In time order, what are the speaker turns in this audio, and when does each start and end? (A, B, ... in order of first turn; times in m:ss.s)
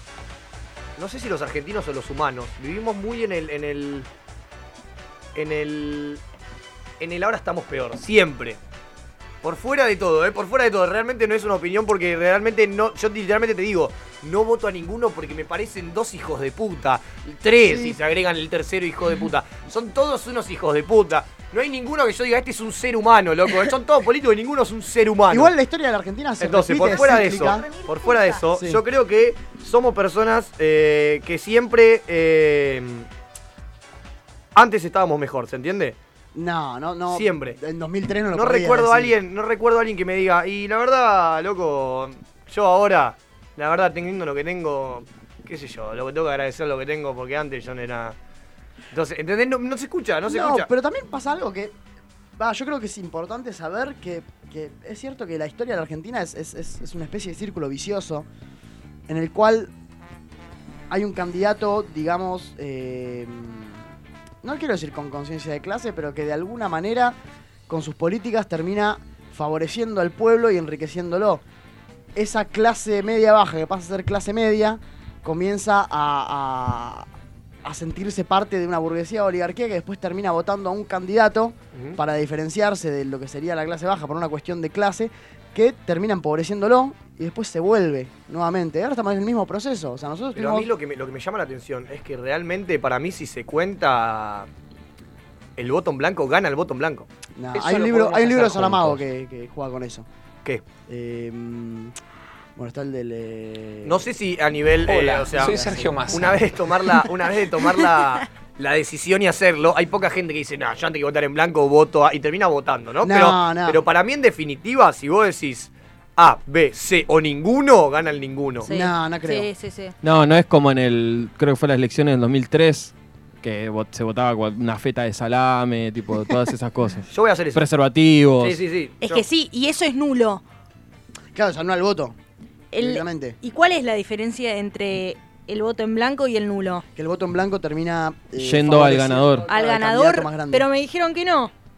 0:01.0-0:04.1 A
0:05.4-0:06.2 A
0:07.0-0:08.6 A
0:09.4-0:25.5 A
0:17.6-0:18.0 B
0:25.3-0:27.7 B
0:26.4-0:33.1 A
0:27.5-0:28.4 C
0:28.5-0:28.8 B
0:34.6-0:36.0 A
0:36.3-0:39.1 B
0:37.1-0:37.6 A
0:38.3-0:48.2 A
0:48.9-0:50.7 A
0:50.3-0:51.8 B
0:52.4-0:58.3 B
0:59.1-0:59.7 B
1:00.9-1:03.9 B
1:04.4-1:07.2 B
1:07.7-1:11.4 B
1:12.2-1:17.1 B
1:17.6-1:30.7 B
1:21.7-1:22.0 A
1:30.4-1:34.5 A
1:35.6-1:39.0 A
1:37.4-1:40.1 B
1:40.9-1:42.0 B
1:42.6-1:44.1 B
1:43.8-1:58.7 A
1:45.4-1:46.0 B
1:53.0-1:53.8 B
1:58.6-2:00.0 C
1:58.7-1:59.5 B
2:00.0-2:08.6 D
2:07.1-2:07.6 A
2:08.4-2:09.2 A
2:09.0-2:10.4 C
2:11.3-2:12.2 B
2:12.7-2:16.8 C
2:12.8-2:13.4 B
2:17.0-2:20.7 B
2:18.4-2:19.5 D
2:19.5-2:21.5 C